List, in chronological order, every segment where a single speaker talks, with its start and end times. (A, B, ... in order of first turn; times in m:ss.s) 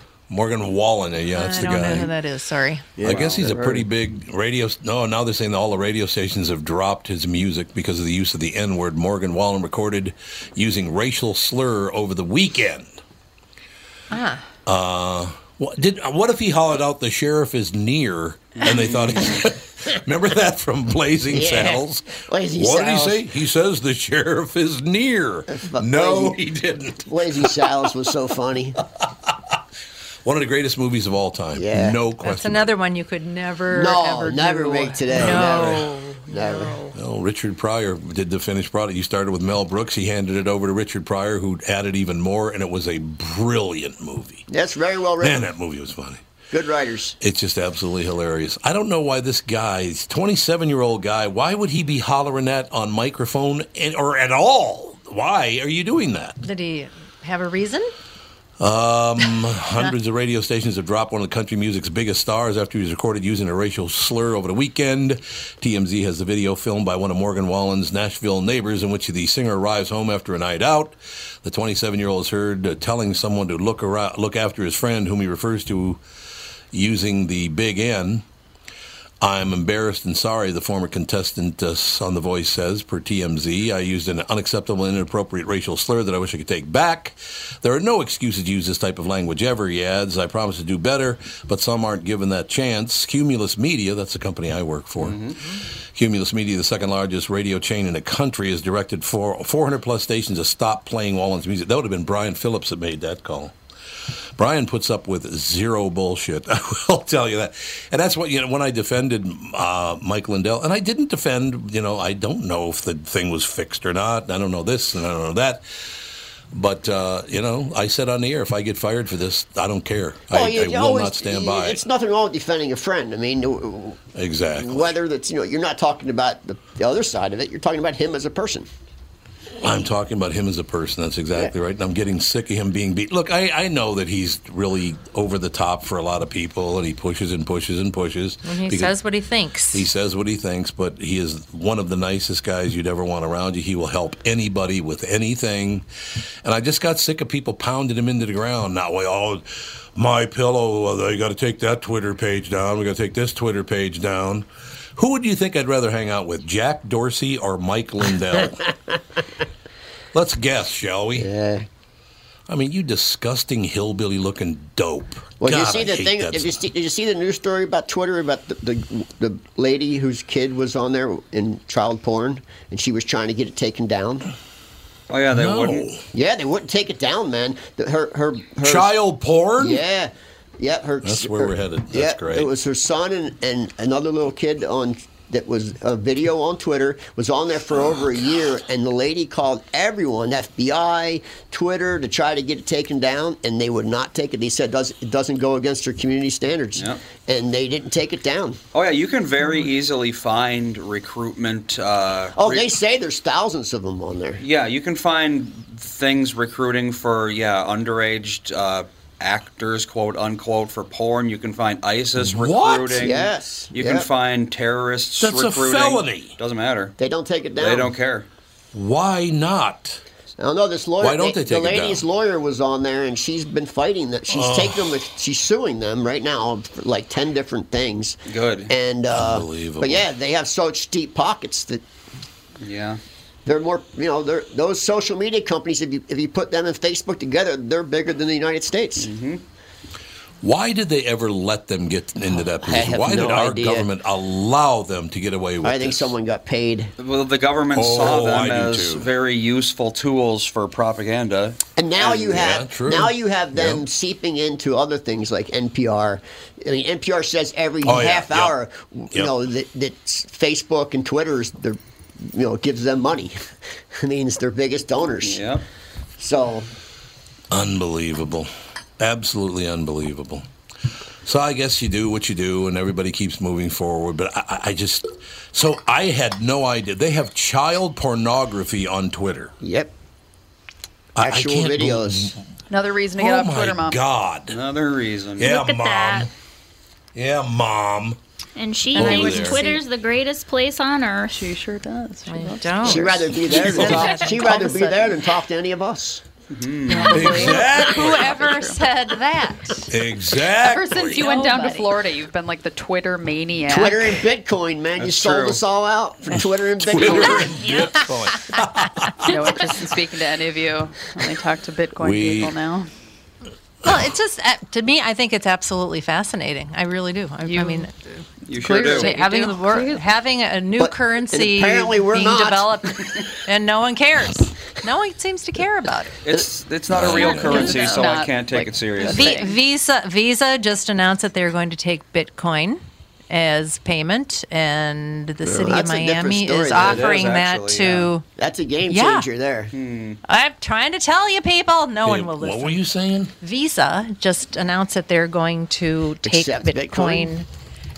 0:00.3-0:02.1 A
0:01.3-0:02.9 B
0:03.0-0:03.9 C
0:03.0-0:13.0 A
0:03.1-0:03.4 D
0:14.1-0:14.4 B
0:14.7-0:27.5 A
0:18.7-0:19.2 D
0:21.3-0:23.3 C
0:25.5-0:26.4 C
0:27.1-0:28.8 C
0:30.2-0:32.7 A
0:31.6-0:32.0 C
0:32.2-0:37.0 B
0:33.7-0:36.8 C
0:35.2-0:35.6 A
0:37.0-0:44.4 A
0:44.5-0:45.4 C
0:45.2-0:46.2 A
0:46.5-0:47.2 C
0:47.2-0:56.4 A
0:56.4-0:57.9 B
0:58.6-1:16.0 A
1:16.7-1:18.2 A
1:19.2-1:35.2 A
1:35.0-1:35.4 D
1:35.9-1:43.6 A
1:44.4-1:55.9 A
1:56.5-2:01.8 A
2:00.3-2:04.0 C
2:04.2-2:05.0 A
2:04.6-2:08.7 C
2:09.6-2:19.0 A
2:18.4-2:19.9 B
2:19.7-2:25.8 A
2:26.4-2:29.4 A
2:30.0-2:38.7 A
2:40.1-2:41.3 A
2:41.2-2:41.7 C
2:42.5-2:46.6 A
2:45.4-2:54.3 C
2:55.1-2:55.9 D
2:55.3-2:56.0 A
2:56.1-2:58.9 C
2:58.6-2:59.8 A
2:59.6-3:18.6 C
3:01.0-3:02.5 A
3:18.7-3:22.7 D
3:22.4-3:24.4 C
3:24.4-3:37.0 D
3:32.2-3:33.1 A
3:33.0-3:34.1 C
3:35.2-3:36.4 A
3:37.0-3:37.9 C
3:37.6-3:38.3 D
3:38.7-3:40.0 A
3:40.4-3:51.8 C
3:41.0-3:42.0 A
3:44.3-3:45.0 A
3:48.3-3:48.7 D
3:49.1-3:50.0 A
3:52.6-3:53.0 D
3:53.5-3:59.1 C
3:59.0-3:59.4 D
4:00.4-4:06.1 A
4:02.3-4:03.9 C
4:05.6-4:06.9 C
4:07.0-4:12.1 D
4:07.8-4:09.1 A
4:11.8-4:23.4 C
4:12.3-4:13.8 A
4:17.8-4:18.6 A
4:23.9-4:25.4 C
4:25.2-4:25.6 D
4:26.2-4:26.7 C
4:27.5-4:30.4 A
4:31.2-4:39.5 A
4:39.6-4:39.9 C
4:41.2-4:42.4 A
4:41.2-4:42.4 C
4:42.7-4:44.0 E
4:43.2-4:44.6 A
4:44.5-4:45.5 D
4:45.4-4:46.3 A
4:45.4-4:46.3 F
4:47.2-4:48.2 A
4:48.6-4:51.4 F
4:49.0-4:49.6 A
4:49.0-4:49.7 E
4:49.0-4:49.7 B
4:51.3-4:53.3 E
4:52.3-4:55.2 B
4:52.8-4:56.2 C
4:53.5-4:54.0 A
4:56.5-4:57.4 D
4:56.9-4:58.9 E
4:56.9-4:59.9 B
4:57.1-4:58.5 A
4:59.9-5:01.3 A
5:00.6-5:04.2 E
5:01.2-5:01.9 B
5:03.7-5:07.6 C
5:05.0-5:05.6 D
5:06.8-5:09.3 A
5:07.6-5:08.0 F
5:09.2-5:12.9 E
5:12.0-5:12.6 A
5:13.8-5:26.2 B
5:17.4-5:17.9 E
5:18.5-5:19.2 D
5:18.6-5:20.1 E
5:20.8-5:23.1 C
5:26.2-5:29.3 D
5:26.9-5:27.7 A
5:27.1-5:29.6 E
5:27.5-5:28.0 B
5:29.0-5:29.4 C
5:29.0-5:38.2 B
5:35.4-5:37.2 C
5:36.8-5:38.1 D
5:38.4-5:39.7 C
5:38.9-5:39.3 B
5:39.7-5:40.2 D
5:40.3-5:42.8 B
5:42.0-5:43.3 A
5:43.4-5:47.5 B
5:46.2-5:47.3 C